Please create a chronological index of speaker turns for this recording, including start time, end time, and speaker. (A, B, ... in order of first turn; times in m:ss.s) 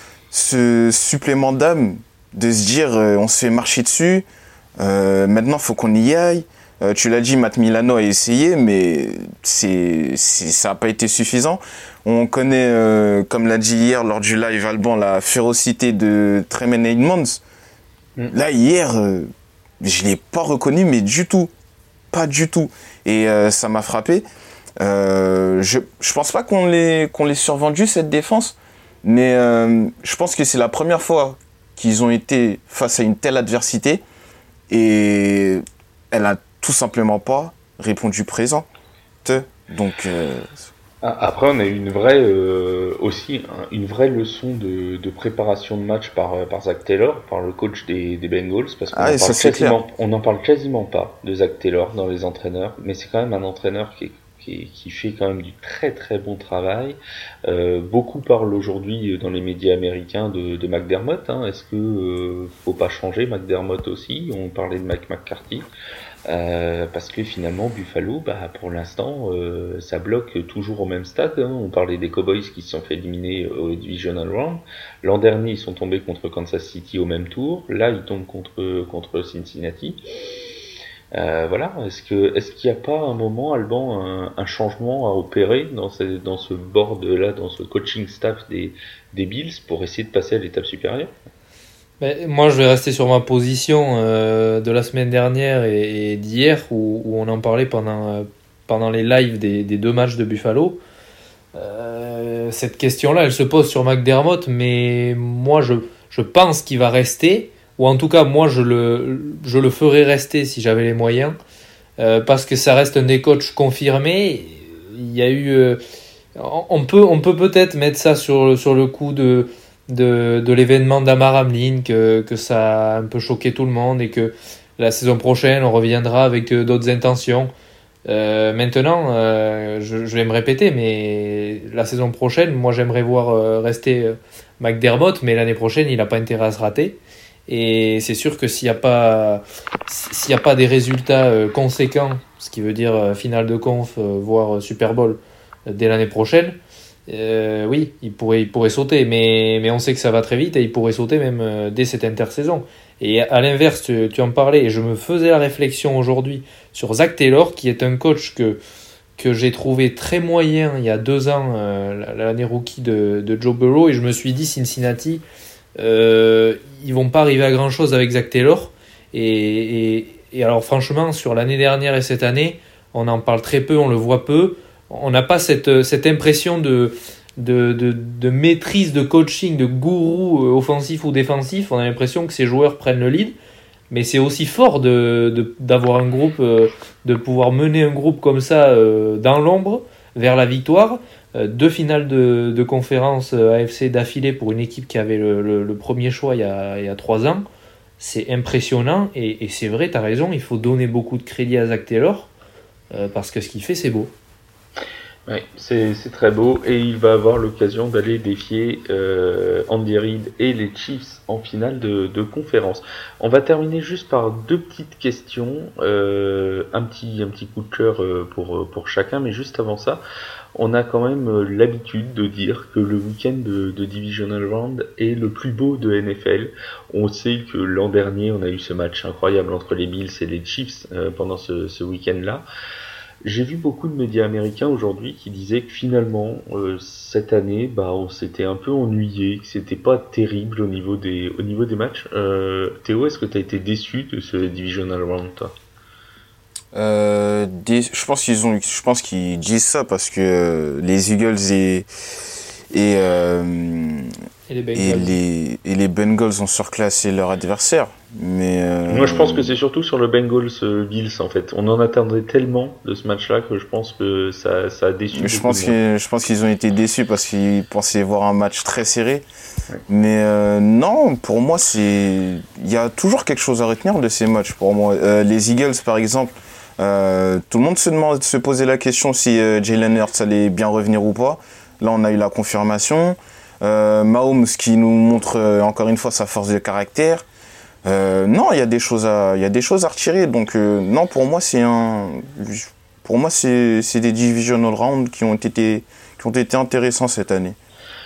0:00.3-0:04.3 A
0:04.8-0:17.4 A
0:18.3-0:19.3 A
0:19.8-0:21.5 A
0:22.1-0:24.2 A
0:24.8-0:34.0 A
0:34.7-0:38.7 A
0:39.2-0:40.6 A
0:41.0-1:05.7 B
0:48.9-0:49.8 A
1:06.3-1:20.0 B
1:21.1-1:31.1 B
1:32.0-1:40.8 C
1:41.6-1:51.4 C
1:52.0-1:55.8 C
1:56.4-2:07.5 C
2:08.1-2:38.6 C
2:39.2-2:45.2 C
2:45.8-3:03.4 C
3:03.9-3:17.4 C
3:18.0-3:22.3 C
3:22.9-3:24.1 C
3:25.3-3:40.0 B
3:40.6-3:52.5 B
3:53.2-4:05.5 B
4:06.7-4:11.9 A
4:12.7-4:14.1 A
4:14.5-4:15.2 C
4:14.8-4:19.5 A
4:18.9-4:25.8 B
4:25.2-4:29.3 A
4:29.9-4:47.3 A
4:47.8-4:57.6 A